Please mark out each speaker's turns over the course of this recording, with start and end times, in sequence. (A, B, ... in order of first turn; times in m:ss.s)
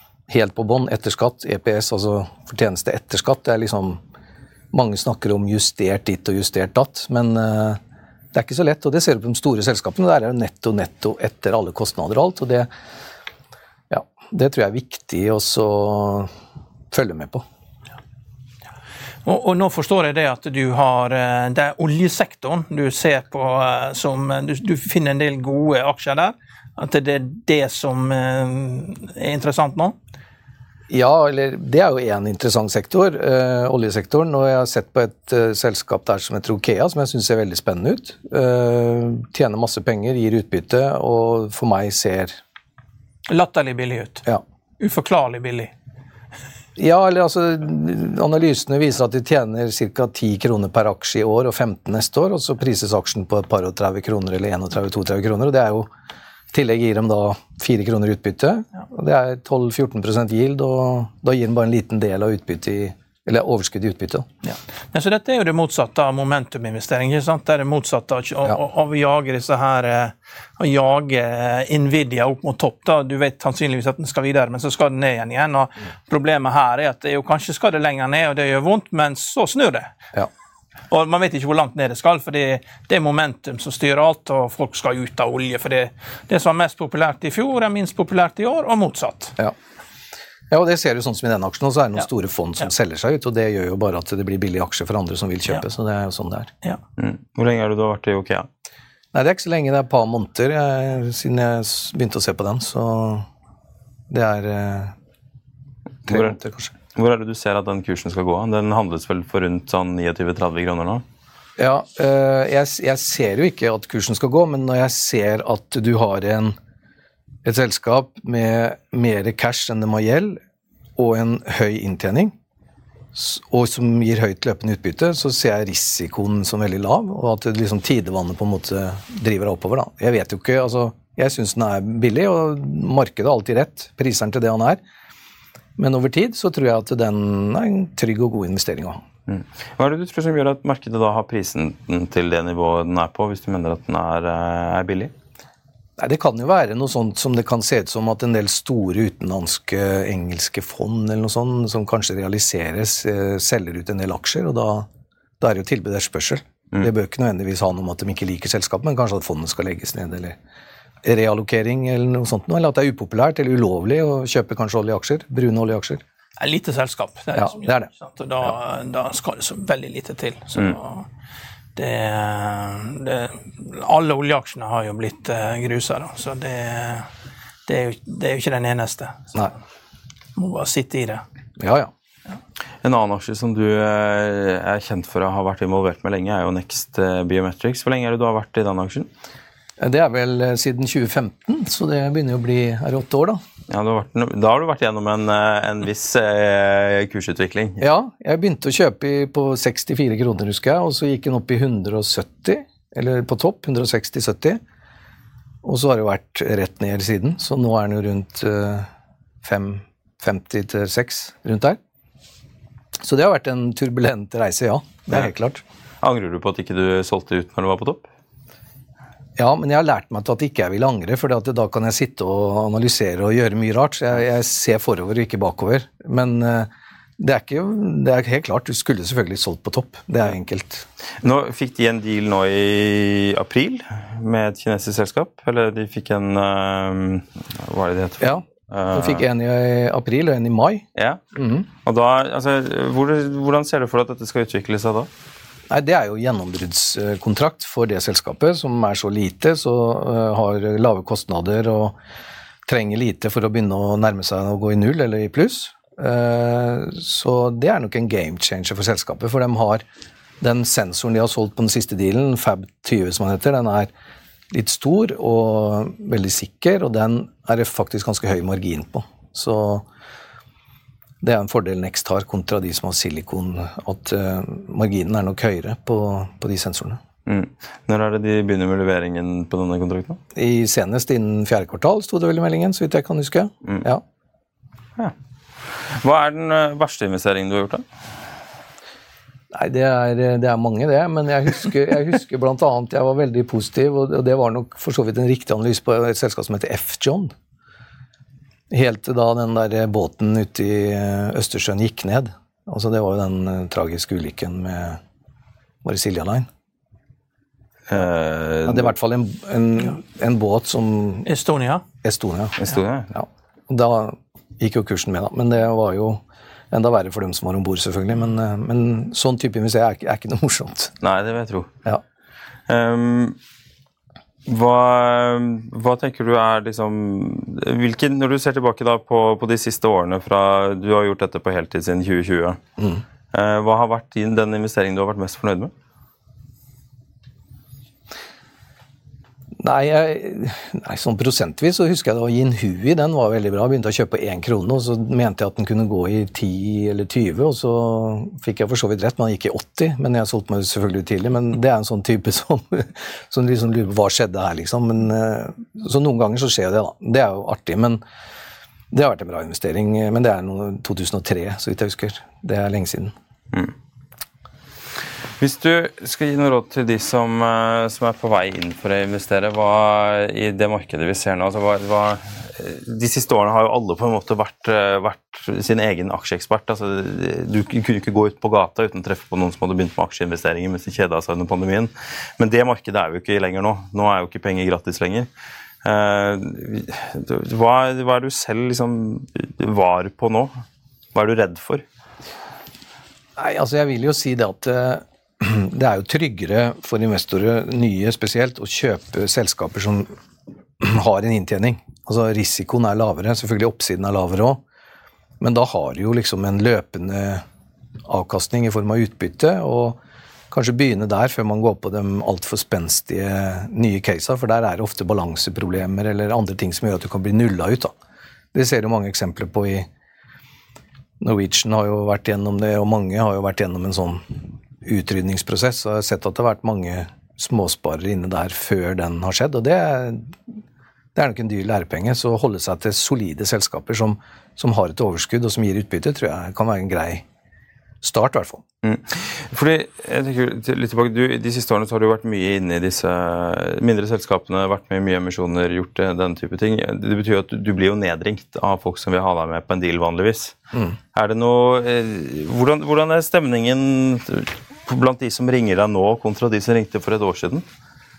0:00.3-0:04.0 A
0:04.7-0:07.8 A
0:08.3-0:12.7 A
0:13.9-0:16.3 A
0:16.9-0:17.4 A
0:19.2-0:30.0 B
0:30.9-0:42.4 A
0:43.3-0:44.2 B
0:44.8-0:45.7 B
0:46.8-0:55.9 A
0:56.5-1:04.3 A
1:04.4-1:19.9 B
1:20.9-1:29.3 B
1:30.5-1:36.5 A
1:37.0-1:38.5 C
1:39.1-1:43.3 A
1:44.1-1:44.9 A
1:46.1-1:46.4 C
1:46.1-1:46.7 A
1:46.9-1:51.0 C
1:51.6-1:56.6 A
1:57.4-2:00.4 A
2:01.0-2:02.3 A
2:03.1-2:14.8 A
2:15.8-2:19.0 A
2:19.3-2:25.1 C
2:26.0-2:34.9 A
2:35.4-2:40.4 A
2:41.0-2:46.0 A
2:46.4-2:51.1 B
2:47.3-2:47.9 A
2:51.8-2:57.1 B
2:57.6-2:59.3 B
3:00.4-3:01.2 B
3:01.6-3:01.9 A
3:02.8-3:09.1 C
3:09.8-3:13.4 A
3:13.7-3:17.8 C
3:17.8-3:24.6 A
3:25.6-3:28.9 A
3:29.4-3:31.8 A
3:33.0-3:35.6 A
3:36.0-3:38.1 C
3:39.4-3:50.8 A
3:51.2-3:59.2 C
3:58.2-4:01.7 A
4:01.8-4:05.1 C
4:05.7-4:12.0 A
4:12.6-4:19.8 A
4:20.4-4:23.9 A
4:24.5-4:29.8 A
4:31.2-4:37.0 A
4:37.2-4:40.2 C
4:40.3-4:44.0 A
4:45.7-4:47.8 C
4:49.5-4:57.3 A
4:58.7-5:05.0 A
5:05.8-5:06.5 A
5:07.9-5:08.9 C
5:08.6-5:11.3 A
5:11.2-5:11.8 B
5:12.0-5:12.6 A
5:12.6-5:13.1 C
5:13.1-5:20.9 A
5:21.0-5:21.7 C
5:22.7-5:23.4 C
5:24.5-5:32.6 C
5:33.3-5:35.7 C
5:39.6-5:58.0 A
5:58.9-6:03.1 A
6:05.4-6:25.3 C
6:25.8-6:30.5 C
6:31.1-6:31.8 C
6:33.4-6:40.1 A
6:40.8-6:44.6 A
6:45.4-6:47.4 A
6:48.1-6:50.0 A
6:50.5-6:57.9 A
6:58.5-6:59.9 A
7:01.2-7:10.4 A
7:11.1-7:17.2 A
7:18.0-7:18.6 A
7:18.8-7:30.6 C
7:31.1-7:37.6 C